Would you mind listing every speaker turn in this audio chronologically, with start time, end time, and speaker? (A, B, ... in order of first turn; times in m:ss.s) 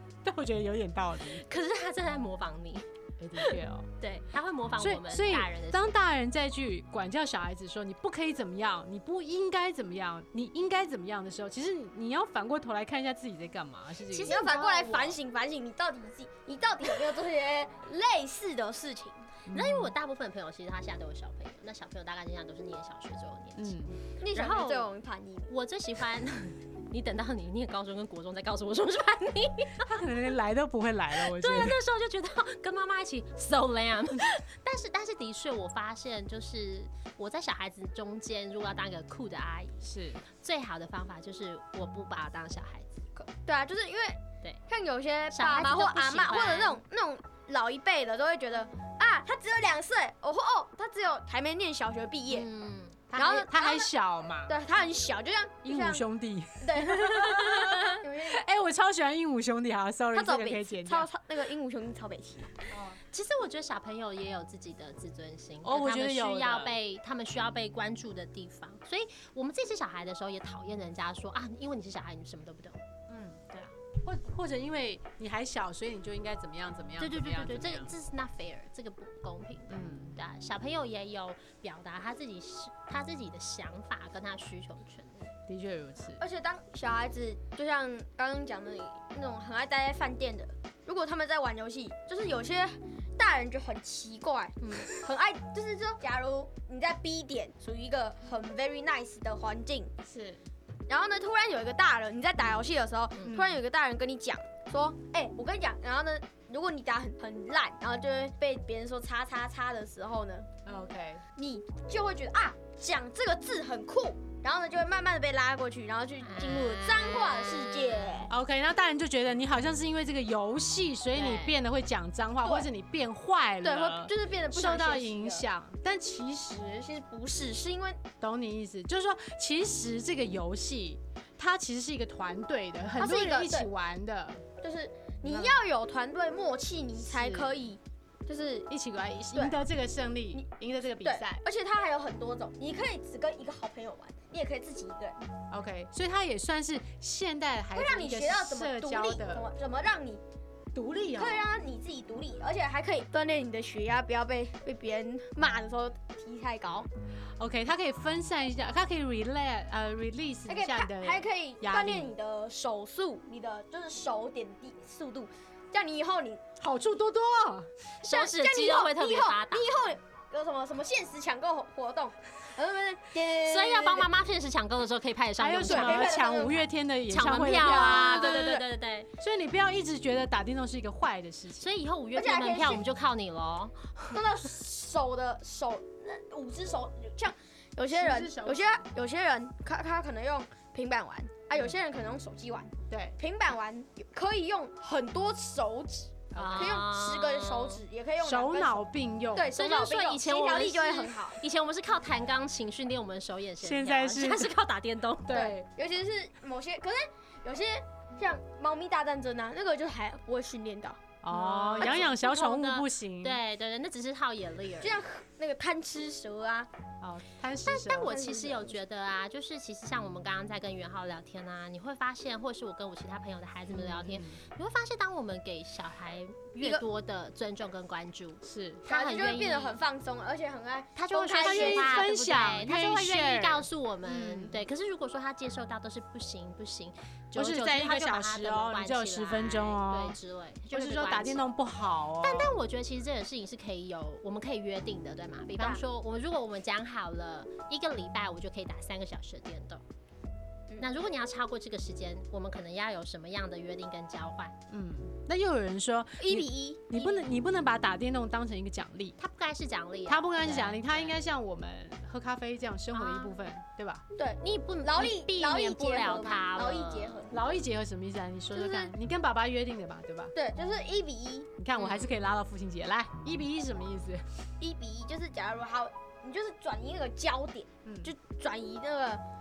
0:00.2-0:01.4 A
0:01.4-0:05.9 B
0:03.2-0:03.9 A
0:04.8-0:14.4 A
0:14.1-0:15.2 B
0:14.2-0:19.3 C
0:19.5-0:19.9 A
0:19.5-0:24.9 B
0:23.6-0:24.0 A
0:24.2-0:25.5 C
0:25.5-0:30.0 B
0:29.8-0:31.8 A
0:31.2-0:39.8 B
0:39.8-0:40.2 A
0:40.4-0:43.0 B
0:43.2-0:52.5 C
0:45.3-0:46.8 B
0:52.3-0:53.0 B
0:53.1-0:54.6 A
0:53.2-0:53.9 C
0:54.5-0:56.1 C
0:55.6-1:01.1 A
0:56.6-0:58.4 C
0:57.4-0:57.8 B
1:00.1-1:02.7 C
1:02.7-1:03.0 A
1:03.1-1:12.8 B
1:05.6-1:06.8 A
1:13.1-1:17.9 A
1:17.0-1:25.3 B
1:19.7-1:20.2 A
1:25.5-1:26.2 A
1:26.2-1:39.9 C
1:34.6-1:34.9 B
1:40.0-1:40.4 A
1:40.9-1:50.5 C
1:43.2-1:43.6 A
1:50.6-1:51.2 A
1:51.4-1:58.3 C
1:56.2-1:58.2 B
1:58.3-2:06.8 A
2:01.2-2:01.6 B
2:03.6-2:05.5 C
2:06.8-2:08.0 C
2:08.2-2:14.5 A
2:13.0-2:13.7 C
2:14.6-2:18.7 C
2:15.2-2:15.6 A
2:17.0-2:17.6 A
2:18.7-2:21.4 A
2:19.3-2:19.6 C
2:21.0-2:25.2 C
2:25.5-2:29.4 A
2:27.7-2:30.2 C
2:30.7-2:31.5 A
2:31.2-2:36.9 C
2:37.4-2:42.1 A
2:40.5-2:46.4 C
2:46.6-2:47.7 A
2:48.0-2:49.7 B
2:48.1-2:54.1 C
2:53.4-2:56.1 B
2:55.4-2:58.4 A
2:55.6-2:56.7 C
2:57.1-2:59.1 B
2:57.2-2:58.6 C
2:59.2-3:01.7 A
3:01.6-3:04.2 B
3:02.2-3:02.8 C
3:04.1-3:21.4 C
3:07.9-3:08.9 A
3:12.9-3:13.2 A
3:16.3-3:16.8 A
3:16.4-3:17.8 B
3:18.2-3:19.5 A
3:19.5-3:25.4 B
3:23.6-3:24.6 A
3:25.2-3:25.7 A
3:25.3-3:31.0 C
3:31.2-3:33.4 A
3:31.3-3:35.0 B
3:31.8-3:32.1 C
3:34.8-3:36.7 C
3:37.0-3:38.3 A
3:37.6-3:49.8 B
3:38.0-3:38.8 C
3:43.7-3:44.4 A
3:48.4-3:48.8 A
3:48.9-3:52.1 C
3:51.0-4:01.4 B
3:51.1-3:54.6 A
3:57.3-4:00.2 A
4:00.7-4:02.6 A
4:02.2-4:09.8 B
4:10.8-4:14.6 B
4:14.7-4:19.2 A
4:16.2-4:17.2 C
4:19.2-4:21.2 B
4:20.1-4:24.0 A
4:22.9-4:23.4 B
4:24.2-4:27.4 C
4:24.4-4:27.2 B
4:27.3-4:30.3 A
4:28.5-4:28.9 C
4:30.3-4:31.5 C
4:31.6-4:34.3 A
4:31.8-4:32.2 B
4:34.6-4:39.2 C
4:37.8-4:38.1 A